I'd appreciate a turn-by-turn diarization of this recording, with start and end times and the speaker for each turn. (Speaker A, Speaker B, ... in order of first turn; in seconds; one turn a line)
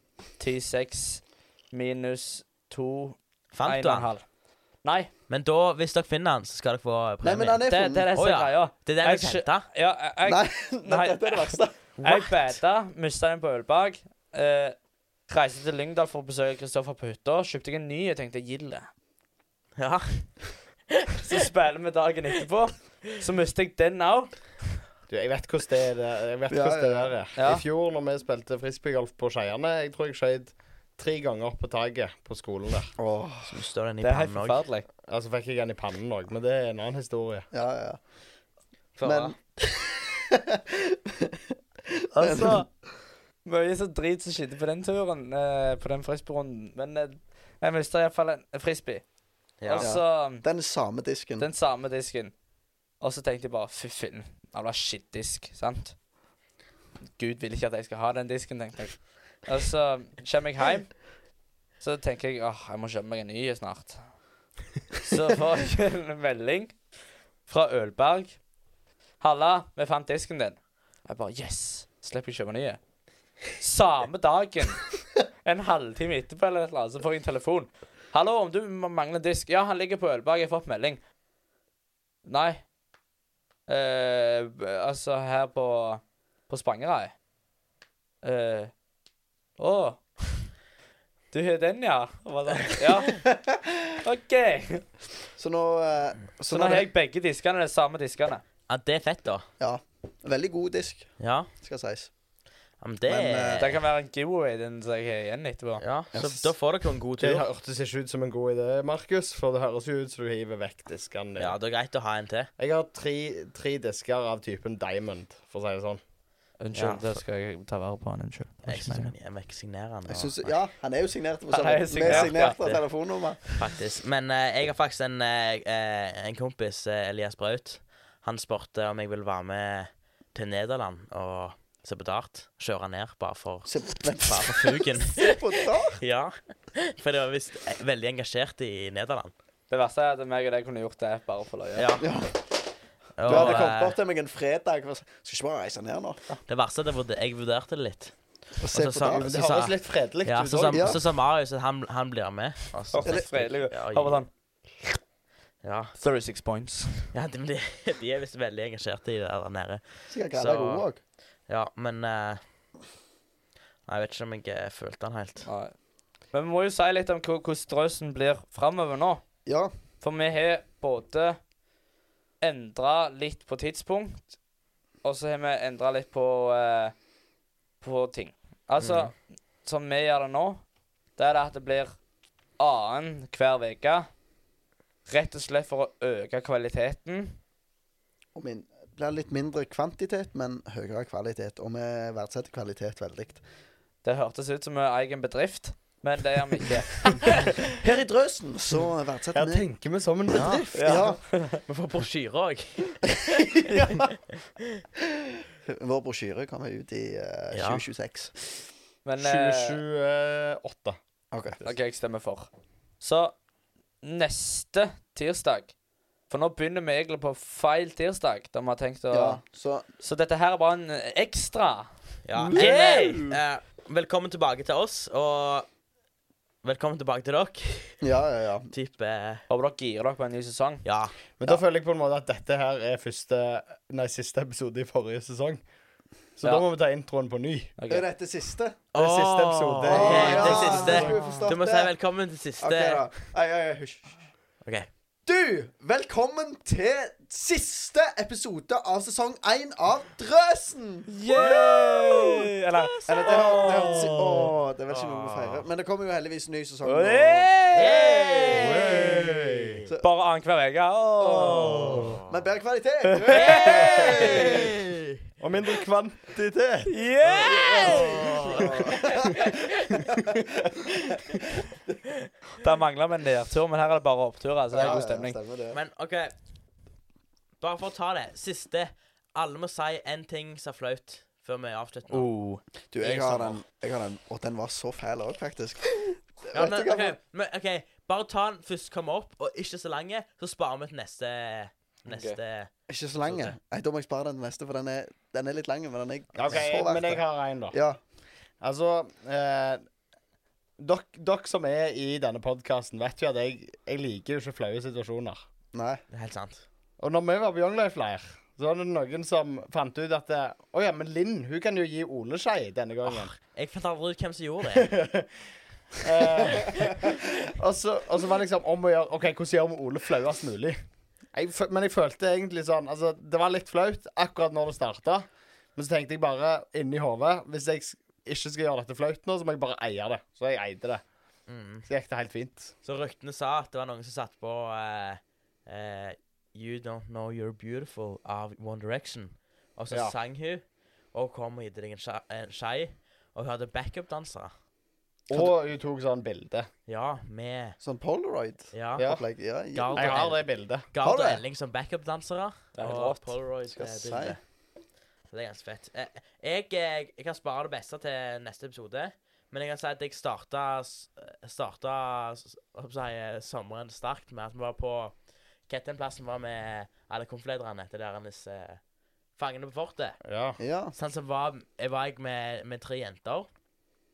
Speaker A: 0.4-4.2
Speaker B: 3.5-4.1
Speaker A: 4.8-5.1
Speaker B: 5.3-7.6
Speaker C: 7.2-8.1
Speaker A: 7.7-11.3
Speaker B: 8.2-9.7
Speaker C: 10.2-11.8
Speaker A: 11.9-14.8
Speaker A: 15.3-18.9
Speaker B: 19.8-20.5
Speaker A: 21.2-24.6
Speaker D: 25.1-32.9
Speaker C: 26.5-27.2
Speaker A: 27.4-27.6
Speaker C: 33.0-33.6
Speaker B: 33.5-34.6
Speaker A: 34.0-34.9
Speaker D: 35.1-37.5
Speaker C: 37.5-38.0
Speaker B: 39.0-39.3
Speaker C: 39.0-42.7
Speaker A: 42.1-42.7
Speaker A: 43.5-49.0
Speaker B: 49.6-49.9
Speaker A: 49.6-50.4
Speaker C: 49.8-51.5
Speaker A: 51.4-52.4
Speaker A: 53.0-56.0
Speaker A: 57.2-61.0
Speaker A: 61.8-64.1
Speaker A: 65.0-66.8
Speaker A: 67.5-68.4
Speaker A: 69.2-72.8
Speaker A: 73.6-74.8
Speaker A: 75.4-81.0
Speaker A: 82.2-82.7
Speaker A: 83.7-87.2
Speaker A: 88.2-88.7
Speaker A: 89.6-90.3
Speaker A: 91.3-93.3
Speaker C: 93.4-93.7
Speaker A: 94.0-94.8
Speaker C: 95.4-96.9
Speaker A: 96.5-98.4
Speaker B: 98.7-99.5
Speaker C: 99.6-102.1
Speaker B: 101.2-101.5
Speaker B: 102.8-103.8
Speaker C: 103.1-103.7
Speaker A: 103.6-105.8
Speaker B: 105.8-107.5
Speaker C: 106.1-106.5
Speaker D: 107.2-111.6
Speaker B: 111.4-112.5
Speaker D: 112.6-116.0
Speaker A: 116.6-119.1
Speaker B: 116.8-117.0
Speaker B: 118.7-120.6
Speaker C: 120.1-123.4
Speaker A: 121.5-122.8
Speaker B: 122.0-122.3
Speaker B: 123.5-139.3
Speaker C: 133.7-136.0
Speaker A: 139.7-141.9
Speaker B: 141.8-142.1
Speaker C: 142.0-142.4
Speaker B: 143.2-144.0
Speaker C: 143.2-146.2
Speaker A: 143.3-143.6
Speaker B: 146.5-148.1
Speaker C: 148.6-149.3
Speaker B: 148.7-154.2
Speaker D: 149.1-151.0
Speaker C: 150.7-151.0
Speaker A: 152.9-154.3
Speaker B: 155.6-155.9
Speaker A: 156.0-157.1
Speaker B: 157.1-160.8
Speaker C: 160.1-161.0
Speaker B: 161.5-162.4
Speaker B: 163.9-165.5
Speaker A: 165.4-165.8
Speaker A: 166.3-169.2
Speaker C: 169.5-169.7
Speaker A: 170.0-171.4
Speaker A: 172.4-174.2
Speaker A: 175.0-176.9
Speaker A: 177.8-180.6
Speaker B: 178.8-179.1
Speaker A: 181.2-181.9
Speaker A: 182.6-184.1
Speaker A: 185.1-187.4
Speaker C: 188.3-193.4
Speaker A: 194.0-197.3
Speaker C: 197.7-199.7
Speaker D: 199.3-200.6
Speaker C: 200.3-201.2
Speaker B: 200.3-200.7
Speaker A: 200.7-201.6
Speaker B: 201.6-204.1
Speaker C: 203.1-204.1
Speaker C: 205.2-208.4
Speaker B: 207.5-207.8
Speaker A: 209.1-209.8
Speaker D: 209.2-211.0
Speaker C: 211.3-211.6
Speaker A: 211.6-212.5
Speaker A: 213.0-213.4
Speaker A: 214.0-215.7
Speaker A: 216.3-219.4
Speaker C: 219.1-219.9
Speaker A: 220.0-221.9
Speaker B: 222.2-225.7
Speaker C: 222.4-223.3
Speaker A: 222.5-223.3
Speaker B: 226.6-228.0
Speaker C: 228.0-228.7
Speaker B: 228.7-229.4
Speaker A: 229.5-230.8
Speaker B: 230.8-231.2
Speaker D: 231.4-235.6
Speaker D: 236.4-237.7
Speaker A: 237.8-238.1
Speaker C: 237.9-238.8
Speaker B: 238.9-243.1
Speaker D: 238.9-241.2
Speaker C: 239.9-241.9
Speaker A: 240.2-241.5
Speaker C: 242.6-244.2
Speaker B: 244.6-244.9
Speaker C: 245.3-251.1
Speaker A: 251.1-254.2
Speaker B: 251.3-252.1
Speaker B: 252.7-255.7
Speaker C: 253.1-259.1
Speaker A: 256.9-258.0
Speaker B: 257.7-259.9
Speaker D: 258.4-259.9
Speaker A: 260.0-262.1
Speaker C: 261.2-264.7
Speaker B: 261.4-262.3
Speaker D: 261.8-262.2
Speaker A: 263.1-264.6
Speaker B: 263.3-265.2
Speaker D: 265.4-266.2
Speaker C: 266.3-271.7
Speaker A: 266.9-268.4
Speaker B: 267.3-270.0
Speaker A: 272.6-275.4
Speaker C: 274.7-275.8
Speaker B: 275.7-276.3
Speaker B: 277.6-282.3
Speaker A: 282.1-282.6
Speaker C: 282.9-287.2
Speaker B: 283.0-283.6
Speaker B: 286.5-292.7
Speaker A: 292.1-292.4
Speaker C: 292.9-298.0
Speaker B: 293.3-293.6
Speaker D: 296.4-297.8
Speaker D: 298.6-299.8
Speaker D: 300.8-305.4
Speaker C: 305.7-306.0
Speaker B: 306.1-306.6
Speaker D: 307.0-313.3
Speaker B: 313.1-314.9
Speaker D: 314.7-315.3
Speaker D: 316.0-320.8
Speaker B: 316.4-317.0
Speaker D: 321.3-331.0
Speaker B: 331.5-331.9
Speaker D: 331.9-332.7
Speaker B: 332.9-344.5
Speaker D: 345.3-346.7
Speaker B: 346.9-347.8
Speaker C: 347.8-350.2
Speaker B: 348.7-349.1
Speaker D: 349.0-349.2
Speaker B: 349.7-354.4
Speaker D: 349.9-350.9
Speaker C: 351.0-351.4
Speaker A: 352.8-353.3
Speaker C: 353.7-354.4
Speaker B: 355.3-368.8
Speaker B: 369.4-370.2
Speaker D: 370.2-370.6
Speaker C: 370.6-370.9
Speaker B: 370.9-373.5